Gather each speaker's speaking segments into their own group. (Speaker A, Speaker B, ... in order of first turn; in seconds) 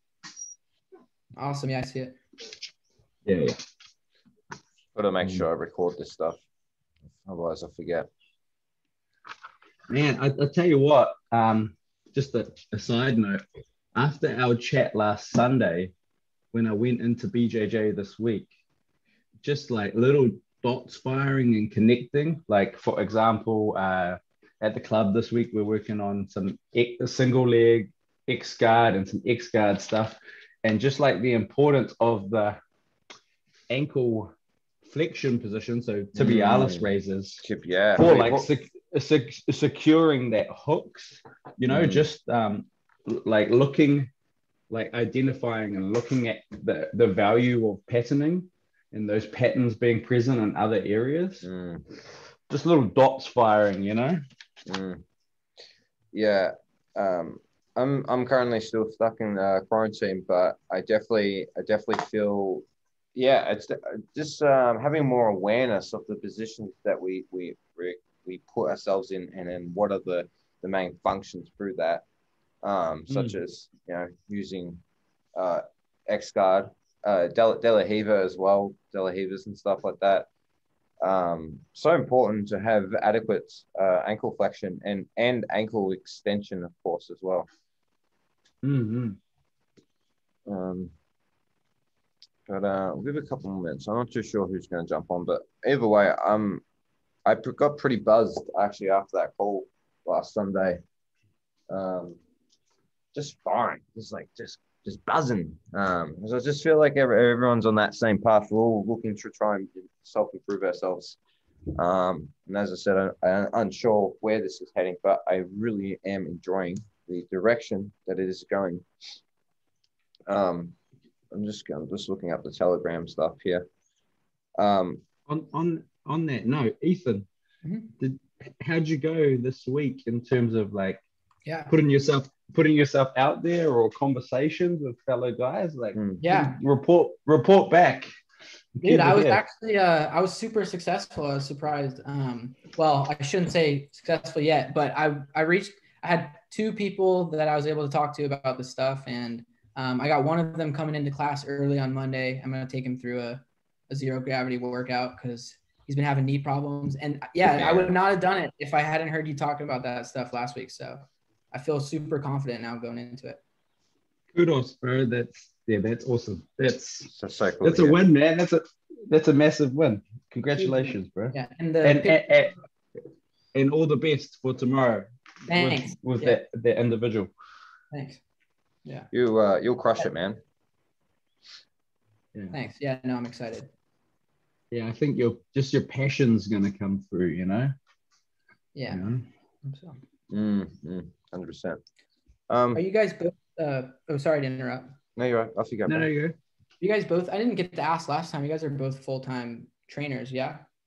Speaker A: 1.4-2.2, 127.7-127.9, 131.5-131.7, 136.2-136.6, 138.8-163.4, 170.6-172.2, 175.5-176.4, 177.9-178.2, 182.5-183.7, 188.8-189.0, 189.6-190.0, 192.7-194.9, 196.8-200.6
Speaker B: 3.3-3.6, 9.9-13.4, 13.9-15.9, 16.5-18.5, 19.4-32.6, 33.7-34.3, 34.8-37.4, 38.0-44.1, 44.7-51.5, 52.5-54.2, 73.1-73.4, 88.6-89.2, 125.3-127.3, 128.0-131.0, 131.7-138.1, 138.8-139.4, 164.3-172.6, 173.5-177.3, 184.7-187.7, 188.9-189.3, 195.9-196.4
Speaker C: 5.0-6.4, 7.2-8.1, 36.1-36.9, 37.4-38.5, 41.7-42.0, 51.4-51.8, 54.7-55.0, 56.1-72.0, 72.6-74.8, 75.3-80.3, 81.0-87.5, 90.5-90.9, 92.5-96.6, 97.3-100.8, 101.7-102.2, 103.1-111.2, 111.8-118.9, 120.3-120.8, 121.3-123.7, 124.6-125.0, 135.9-136.2, 157.4-158.0, 167.1-168.0, 179.1-180.4, 190.3-191.8, 192.5-192.8, 195.2-196.1